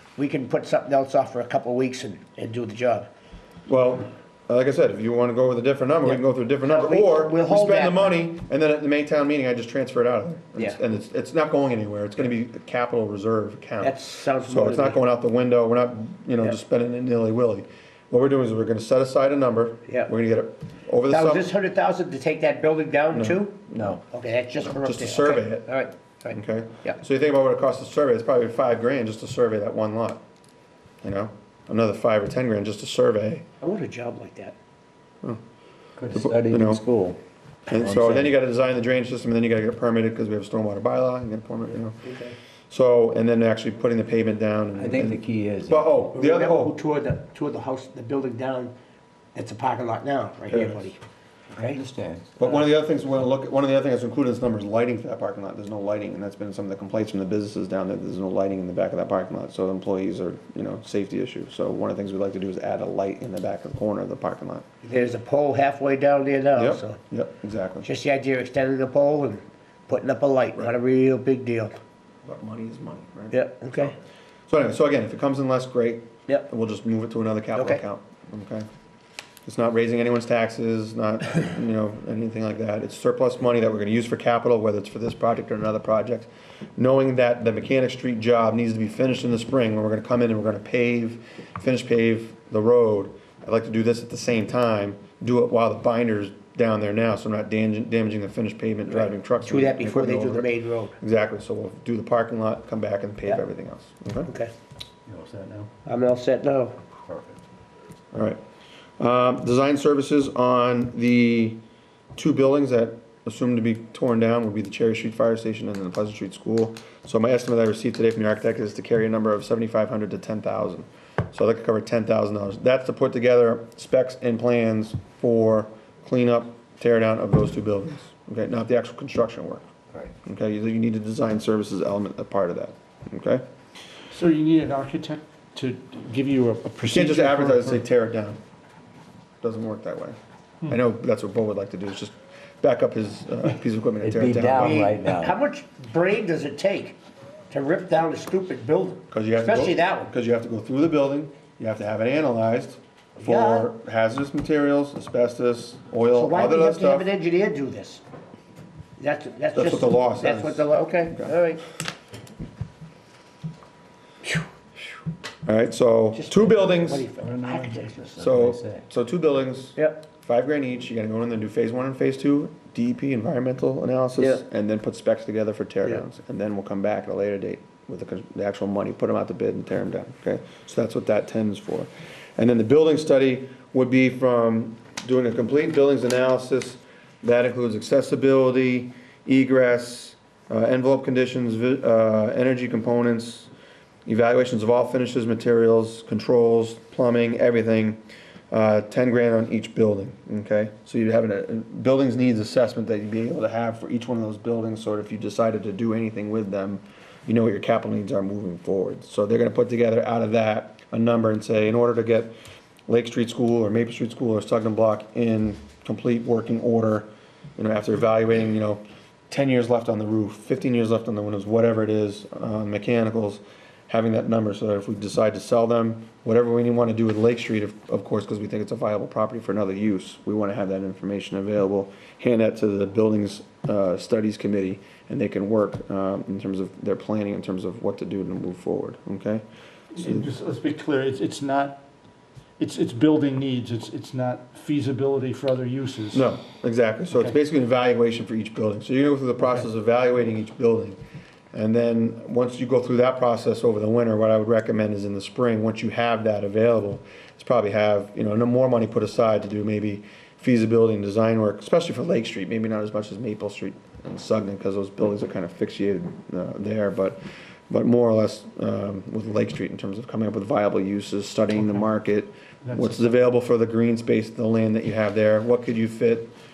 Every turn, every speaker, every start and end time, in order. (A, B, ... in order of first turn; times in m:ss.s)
0:00.2-0:03.1 A
0:03.7-0:21.5 B
0:06.0-0:08.2 A
0:13.8-0:15.0 A
0:21.1-0:27.0 A
0:23.1-0:24.0 B
0:24.8-0:25.7 B
0:26.3-0:30.2 B
0:31.0-0:33.4 B
0:33.6-0:34.6 A
0:36.0-0:37.2 C
0:36.1-0:36.8 B
0:37.7-0:42.0 B
0:37.7-0:38.3 C
0:42.0-0:42.3 A
0:42.7-0:46.7 B
0:44.8-0:45.9 C
0:46.1-0:48.7 A
0:49.3-0:51.0 A
0:50.5-0:50.9 B
0:51.5-0:51.8 A
0:51.5-0:52.3 C
0:52.4-1:04.7 B
1:04.8-1:07.0 A
1:06.6-1:07.9 B
1:07.8-1:11.7 A
1:12.2-1:13.9 B
1:13.3-1:13.9 A
1:14.5-1:18.7 B
1:19.4-1:44.3 B
1:38.9-1:41.0 A
1:45.1-1:45.7 C
1:45.8-1:46.8 A
1:46.9-1:47.4 C
1:48.1-1:48.4 B
1:49.0-1:51.6 B
1:52.1-2:09.7 B
2:10.2-2:13.4 B
2:14.1-2:17.8 D
2:16.9-2:18.4 B
2:19.4-2:24.8 B
2:24.0-2:25.4 C
2:24.5-2:27.0 A
2:27.5-2:30.1 A
2:29.1-2:37.1 B
2:33.2-2:33.7 A
2:36.1-2:38.0 A
2:39.0-2:41.7 A
2:39.5-2:41.3 B
2:45.4-2:47.1 B
2:46.1-2:48.1 A
2:47.2-2:48.8 C
2:48.2-3:13.5 B
2:49.8-2:50.0 A
3:14.1-3:18.0 B
3:18.5-3:32.3 B
3:32.9-3:59.4 B
3:59.9-4:01.8 D
4:00.0-4:00.3 B
4:02.6-4:06.2 D
4:06.1-4:11.0 B
4:11.5-4:36.3 B
4:32.6-4:33.3 D